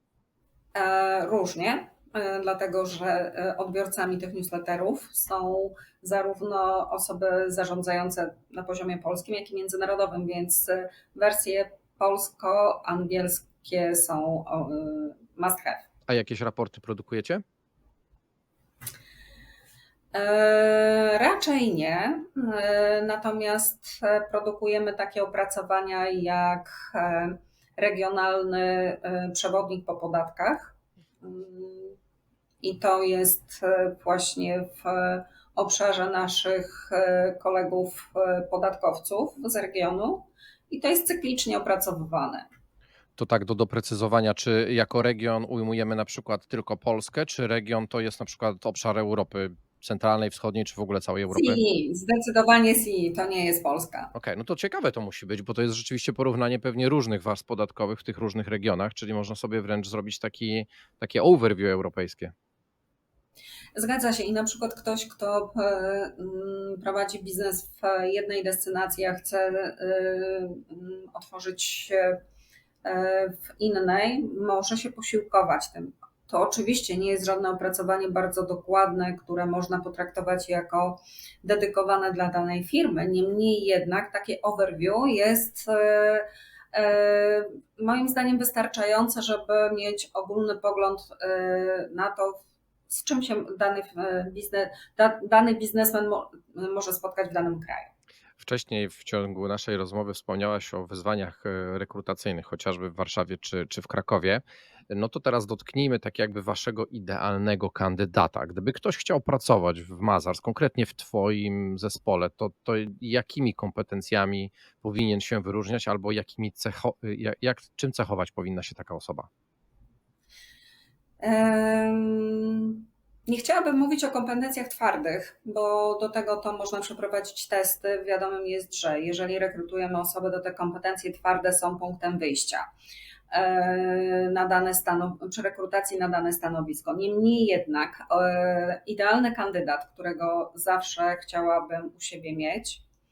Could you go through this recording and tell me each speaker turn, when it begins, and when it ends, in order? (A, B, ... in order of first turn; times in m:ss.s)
0:00.8-0:15.9 A
0:16.1-0:17.4 B
0:20.1-0:32.0 A
0:32.6-0:42.5 A
0:43.2-0:51.6 B
0:51.3-0:54.1 A
0:54.1-1:02.3 B
1:03.8-1:12.2 A
1:12.8-1:37.9 A
1:38.4-1:59.3 B
2:01.2-2:12.6 A
2:13.3-2:22.8 A